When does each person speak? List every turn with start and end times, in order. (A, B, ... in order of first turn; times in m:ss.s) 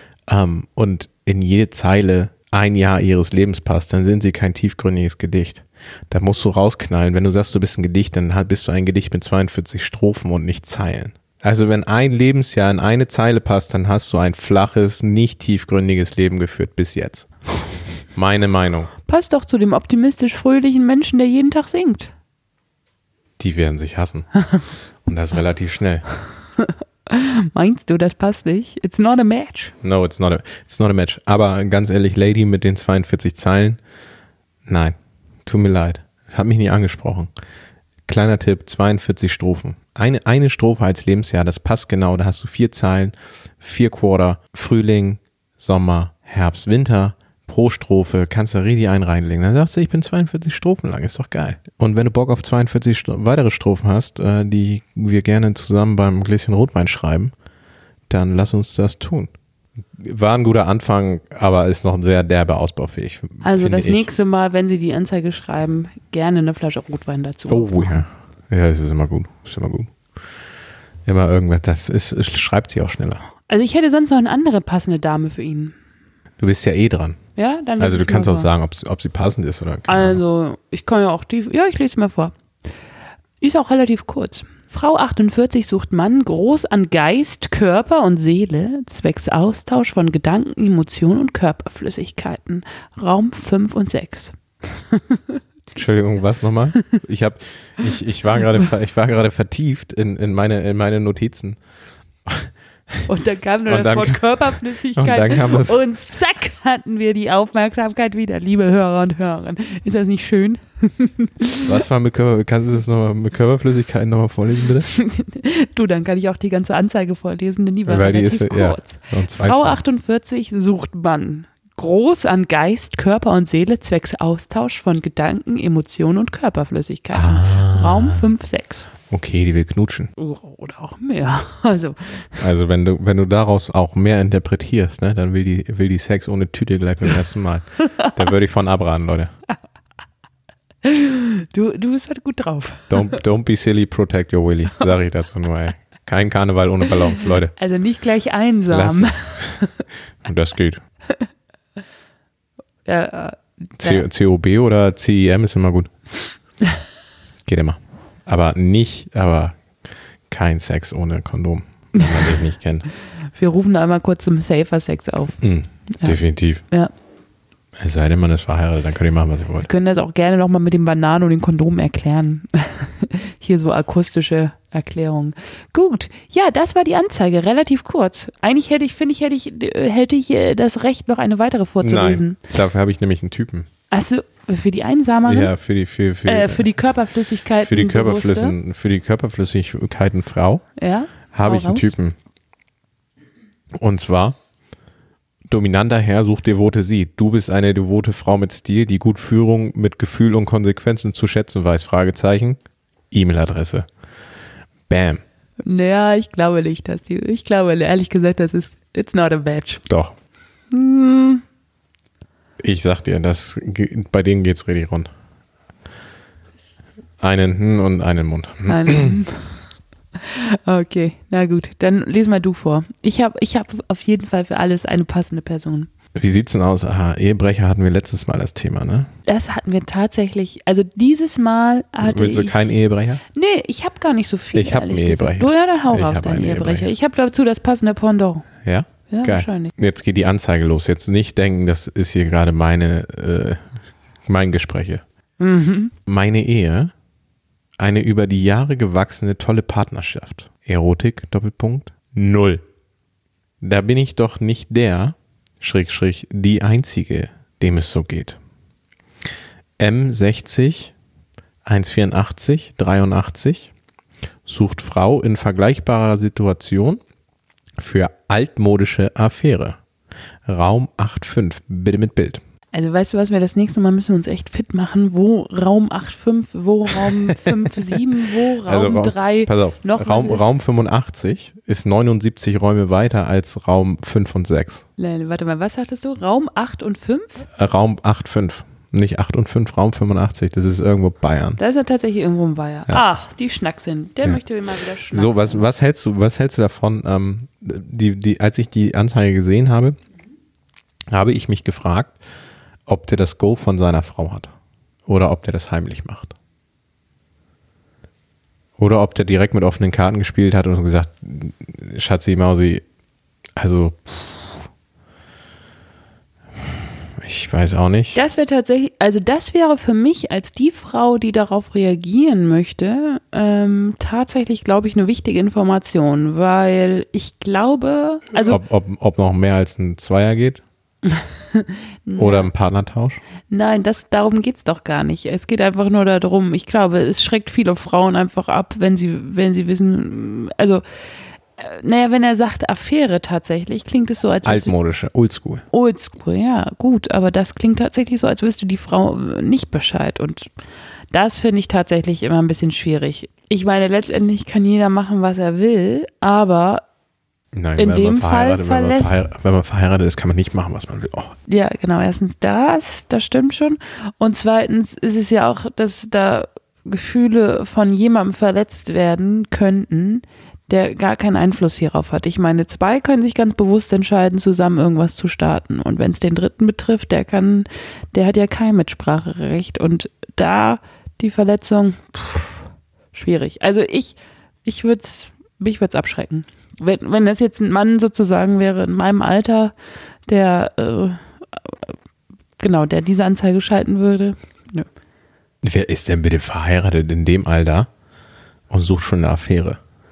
0:00.3-0:17.3 A
0:18.1-0:18.9 A
0:19.0-0:22.1 B
0:23.4-0:24.3 A
0:25.0-0:26.0 A
0:26.6-0:29.7 B
0:29.8-0:33.8 A
0:34.6-0:37.3 A
0:38.1-0:57.3 A
0:58.1-0:59.3 A
1:00.0-1:04.1 A
1:03.4-1:08.0 B
1:07.5-1:09.9 A
1:11.0-1:13.2 A
1:13.5-1:15.8 B
1:16.4-1:17.2 A
1:17.4-1:18.5 B
1:17.8-1:20.2 A
1:19.9-1:22.3 B
1:23.4-1:35.4 B
1:35.7-1:41.6 A
1:42.2-1:43.0 A
1:43.0-1:51.7 B
1:43.7-1:45.8 A
1:51.6-1:54.9 A
1:54.9-2:08.9 B
1:57.9-1:59.8 A
2:07.1-2:08.2 A
2:09.0-2:10.1 A
2:10.2-2:12.4 B
2:12.4-2:19.3 A
2:20.8-2:23.2 B
2:22.9-2:27.5 A
2:27.5-2:29.7 B
2:28.7-2:29.6 A
2:30.2-2:30.8 A
2:32.8-2:34.0 B
2:33.8-2:35.9 A
2:37.4-2:39.6 A
2:40.3-2:42.9 A
2:42.0-2:42.2 B
2:43.3-2:46.2 B
2:45.4-2:46.6 A
2:47.8-2:49.7 A
2:49.6-3:02.4 B
3:01.8-3:03.7 A
3:03.9-3:05.5 B
3:05.2-3:06.7 A
3:06.2-3:08.5 B
3:07.6-3:10.6 A
3:10.8-3:11.9 B
3:11.3-3:12.2 A
3:13.7-3:14.4 A
3:15.5-3:22.6 A
3:23.1-3:23.9 A
3:24.9-3:25.2 A
3:25.6-3:29.8 B
3:29.8-3:30.1 A
3:30.7-3:31.4 B
3:32.6-3:35.1 A
3:37.2-3:39.2 A
3:38.7-3:39.5 B
3:40.2-3:45.9 B
3:46.1-3:49.1 A
3:49.2-3:52.7 B
3:52.0-3:53.2 A
3:53.3-3:58.5 B
3:54.5-3:56.9 A
3:58.6-4:03.7 A
3:59.1-3:59.7 B
4:04.2-4:05.0 A
4:05.4-4:05.9 B
4:06.1-4:06.9 A
4:07.8-4:12.6 A
4:13.6-4:18.4 A
4:19.8-4:20.9 A
4:21.6-4:23.7 A
4:24.4-4:27.0 A
4:27.8-4:29.8 A
4:30.4-4:32.4 A
4:32.7-4:40.5 B
4:37.0-4:38.0 A
4:38.6-4:44.8 A
4:45.0-4:47.5 B
4:47.6-4:51.6 A
4:51.6-4:55.6 B
4:55.1-5:00.0 A
5:01.1-5:02.2 A
5:02.9-5:04.5 A
5:05.0-5:06.3 A
5:08.8-5:12.8 A
5:13.6-5:14.6 A
5:17.2-5:18.2 A
5:18.1-5:28.6 B
5:28.4-5:30.6 A
5:31.0-5:32.5 B
5:32.2-5:33.2 A
5:33.5-5:40.8 B
5:41.6-5:44.7 B
5:44.4-5:45.6 A
5:45.7-5:50.5 B
5:51.1-5:56.8 B
5:57.5-6:01.3 A
5:57.8-5:59.1 B
6:01.5-6:22.6 B
6:23.1-6:29.7 B
6:30.3-6:31.9 B
6:32.6-6:34.9 B
6:35.6-6:37.9 A
6:38.7-6:39.8 A